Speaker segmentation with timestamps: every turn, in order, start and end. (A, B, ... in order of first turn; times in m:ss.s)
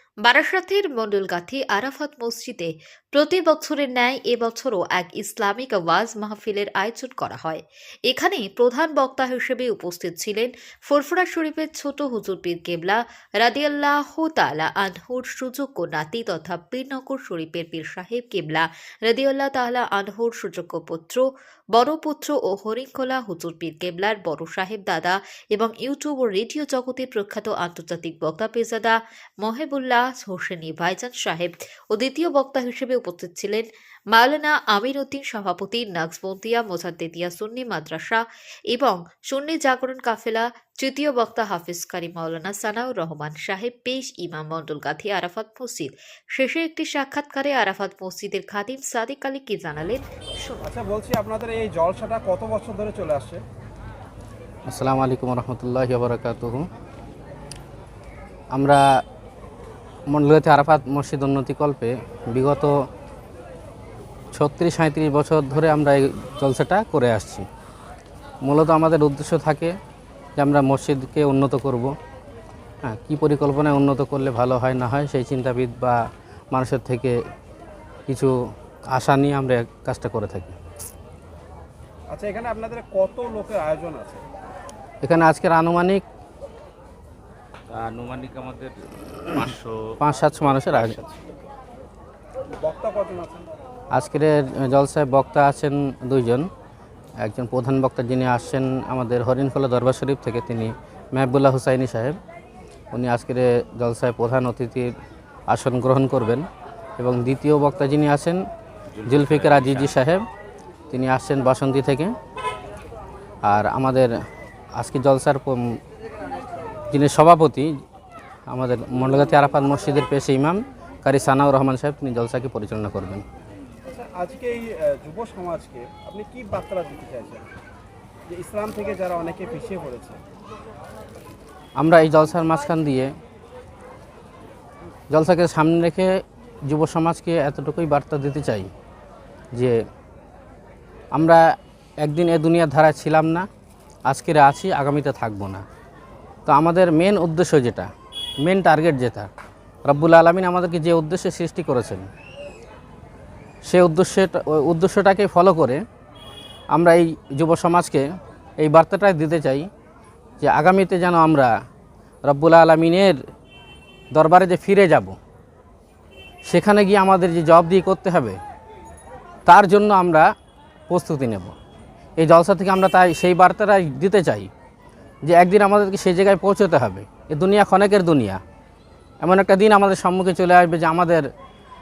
0:00.2-0:50.7 A
0:50.6-0:53.4 B
0:54.7-0:56.7 C
0:58.5-0:59.0 C
1:00.1-1:02.9 C
1:04.3-1:07.5 C
1:08.4-1:09.8 C
1:10.4-1:12.0 C
1:12.8-1:17.2 C
1:18.1-1:18.4 C
1:18.9-1:20.6 C
1:22.1-1:24.2 B
1:25.0-1:26.0 C
1:27.7-1:30.0 D
1:30.0-1:31.0 C
1:30.7-1:31.2 D
1:32.6-1:33.5 B
1:33.9-1:36.5 C
1:37.2-1:42.2 C
1:42.9-1:44.9 C
1:45.5-1:46.5 C
1:47.0-1:48.4 C
1:48.9-1:50.0 D
1:49.1-1:50.2 C
1:50.9-1:52.1 C
1:53.4-1:54.1 C
1:54.8-1:55.8 C
1:56.9-1:57.7 C
1:58.5-2:03.2 C
2:03.9-2:07.5 B
2:08.3-2:10.2 B
2:11.8-2:13.1 C
2:15.1-2:18.7 C
2:21.1-2:21.5 C
2:22.0-2:23.5 C
2:24.1-2:25.6 C
2:26.5-2:27.9 C
2:28.4-2:29.3 C
2:29.8-2:32.1 C
2:33.7-2:35.8 C
2:36.7-2:38.1 C
2:38.6-2:39.7 C
2:40.4-2:41.5 C
2:42.2-2:43.2 C
2:44.1-2:45.2 C
2:46.5-2:48.4 C
2:49.5-2:50.3 C
2:50.9-2:51.6 C
2:52.2-2:54.5 C
2:55.2-2:58.4 C
2:59.2-3:01.3 C